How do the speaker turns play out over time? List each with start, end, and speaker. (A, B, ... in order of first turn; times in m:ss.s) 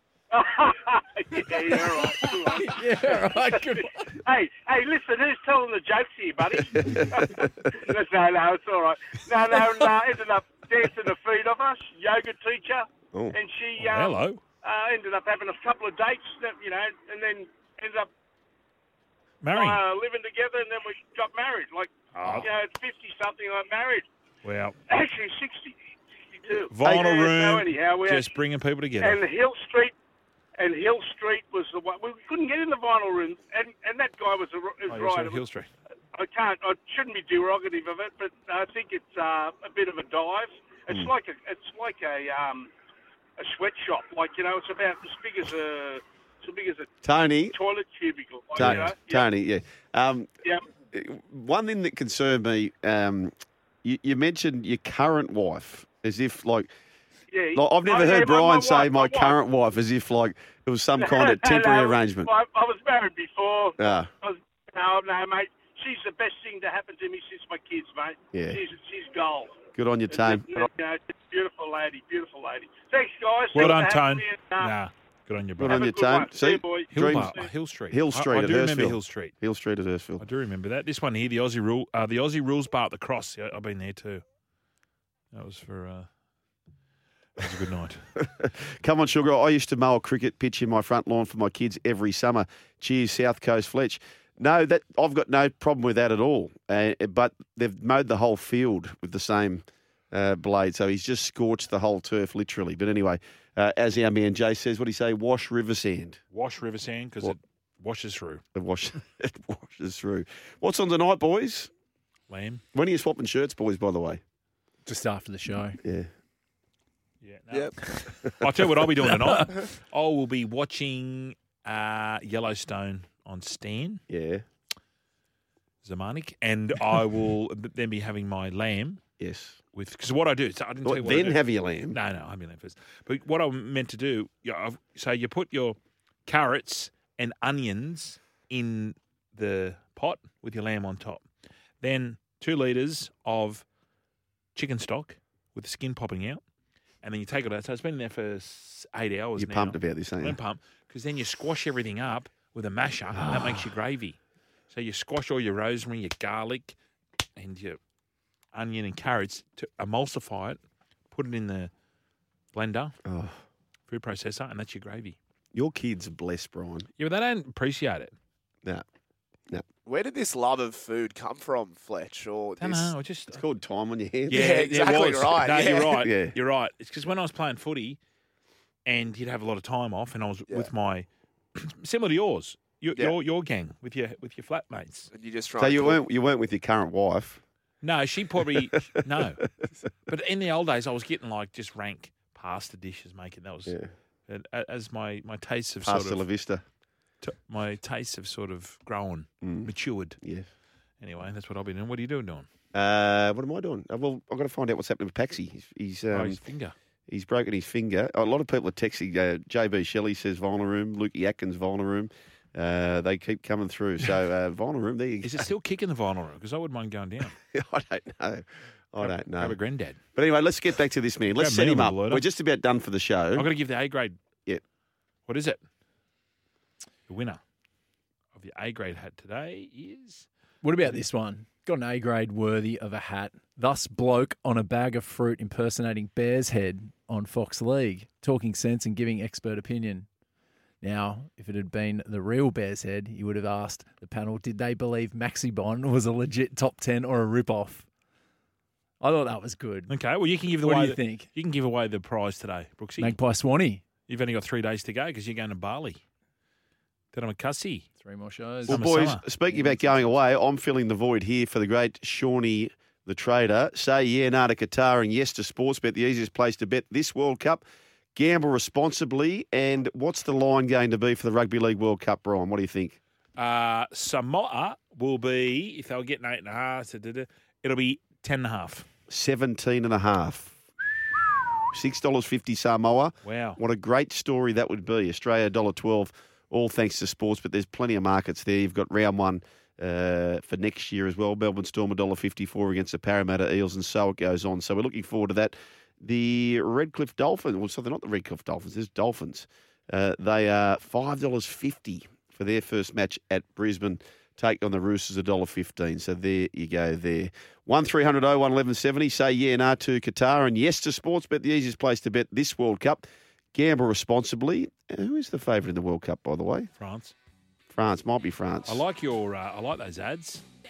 0:00.3-0:18.1 A
0:02.5-0:04.2 B
0:13.8-0:14.4 C
0:19.4-0:19.8 C
0:19.5-0:24.1 A
0:22.1-0:22.5 C
0:24.4-0:24.8 C
0:24.9-0:28.4 A
0:26.7-0:29.2 C
0:26.8-0:27.1 D
0:29.0-0:29.9 A
0:30.6-0:35.4 A
0:34.9-0:35.7 C
0:36.1-0:42.7 A
0:43.4-0:46.9 A
0:47.0-0:47.6 D
0:47.5-0:49.3 A
0:48.6-0:49.0 C
0:48.6-0:50.3 D
0:50.9-0:56.7 D
0:57.3-0:59.4 A
0:57.6-1:02.3 D
1:01.0-1:09.6 A
1:03.8-1:04.1 D
1:08.3-1:08.6 D
1:09.8-1:10.5 D
1:10.1-1:14.8 A
1:13.5-1:15.9 C
1:15.6-1:17.4 D
1:15.6-1:17.4 A
1:16.9-1:19.3 C
1:17.9-1:20.2 D
1:20.2-1:24.2 C
1:25.3-1:26.1 C
1:27.4-1:28.0 C
1:28.2-1:46.2 D
1:46.3-1:48.4 C
1:48.6-1:51.7 D
1:52.3-1:52.6 C
1:52.7-1:54.2 D
1:54.9-1:55.8 B
1:55.8-1:56.1 D
1:57.2-2:04.0 C
1:57.5-1:57.8 E
2:04.1-2:04.4 D
2:05.8-2:09.0 C
2:09.2-2:09.6 D
2:09.8-2:11.4 C
2:10.8-2:12.0 D
2:11.9-2:21.2 C
2:21.8-2:23.6 C
2:24.6-2:26.4 C
2:27.0-2:34.2 C
2:29.4-2:30.4 D
2:33.1-2:33.6 D
2:34.7-2:36.8 C
2:37.4-2:37.8 C
2:38.5-2:40.6 C
2:41.1-2:41.7 C
2:42.5-2:43.0 C
2:43.0-2:43.4 D
2:43.9-2:45.2 C
2:45.5-2:46.9 D
2:47.0-2:48.1 C
2:49.8-2:52.9 E
2:52.6-2:53.4 C
2:53.3-2:54.5 D
2:54.3-2:58.0 C
2:54.3-2:56.0 E
2:55.9-2:56.3 D
2:58.9-3:05.1 C
3:05.1-3:06.0 E
3:05.6-3:07.4 D
3:07.8-3:09.4 C
3:10.1-3:13.8 C
3:14.3-3:16.2 C
3:15.8-3:16.6 D
3:17.2-3:20.2 C
3:19.4-3:19.7 D
3:21.0-3:22.5 C
3:22.7-3:26.4 D
3:26.1-3:26.8 C
3:27.1-3:35.5 D
3:35.2-3:37.4 C
3:37.5-3:39.6 D
3:39.0-3:40.0 C
3:40.2-3:43.5 D
3:41.4-3:42.2 C
3:43.4-3:44.2 C
3:45.3-3:45.6 C
3:47.1-3:47.4 C
3:48.4-3:50.3 C
3:50.6-4:00.1 B
4:00.8-4:07.9 B
4:09.0-4:10.0 B
4:09.9-4:13.2 C
4:10.6-4:11.3 B
4:13.0-4:13.8 B
4:14.1-4:16.0 C
4:17.1-4:17.9 C
4:18.0-4:18.8 B
4:18.7-4:19.2 C
4:18.7-4:27.6 D
4:19.5-4:20.1 B
4:28.2-4:33.0 D
4:33.4-4:38.9 C
4:39.1-4:40.6 D
4:41.7-5:16.7 D
4:43.2-4:43.6 C
5:16.8-5:17.1 C
5:17.7-5:18.8 D
5:18.7-5:20.4 C